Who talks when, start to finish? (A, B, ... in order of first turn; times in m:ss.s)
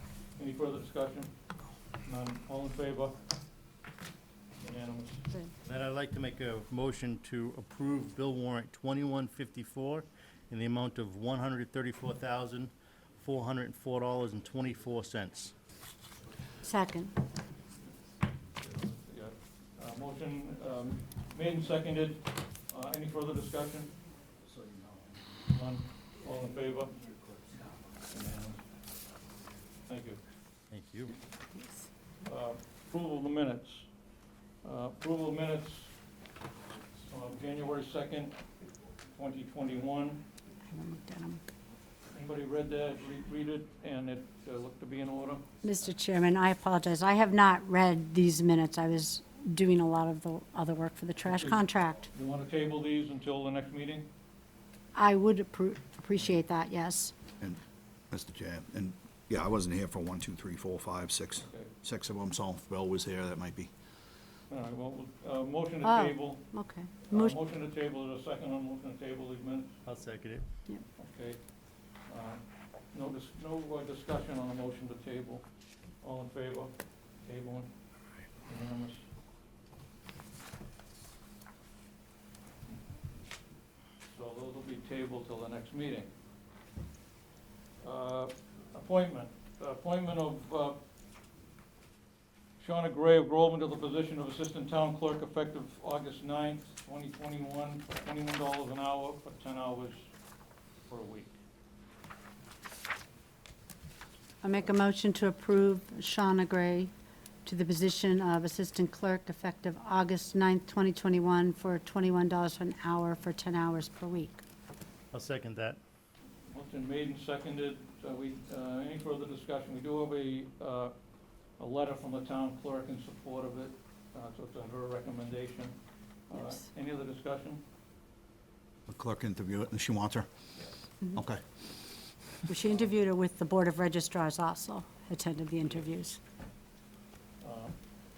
0:00.4-0:01.3 A
0:02.0-0:03.2 A
0:04.6-0:05.2 A
0:05.6-0:15.5 B
0:16.6-0:17.1 C
0:18.6-0:23.9 A
0:25.5-0:26.9 A
0:28.1-0:28.6 A
0:29.9-0:30.2 A
0:30.7-0:31.1 B
0:32.2-0:33.9 A
0:34.6-0:35.9 A
0:37.1-0:38.4 A
0:39.1-0:40.2 A
0:40.7-0:41.4 C
0:42.1-0:45.4 A
0:45.6-0:52.1 C
0:51.2-0:54.1 A
0:54.9-0:57.1 C
0:58.1-1:03.7 D
1:01.4-1:01.7 A
1:04.5-1:06.5 A
1:05.8-1:07.4 C
1:07.1-1:09.8 A
1:09.8-1:10.4 B
1:11.0-1:11.4 A
1:12.0-1:12.4 A
1:12.9-1:15.4 A
1:16.0-1:17.7 A
1:18.4-1:19.0 A
1:24.1-1:26.1 A
1:27.8-1:30.8 A
1:32.6-1:40.1 A
1:40.9-1:41.3 A
1:44.4-1:46.9 C
1:47.4-1:54.4 C
1:55.1-1:55.8 B
1:56.5-2:00.9 A
2:01.6-2:05.7 A
2:06.3-2:07.6 A
2:08.9-2:10.2 D
2:11.2-2:11.4 D
2:12.5-2:16.2 C
2:17.4-2:17.7 A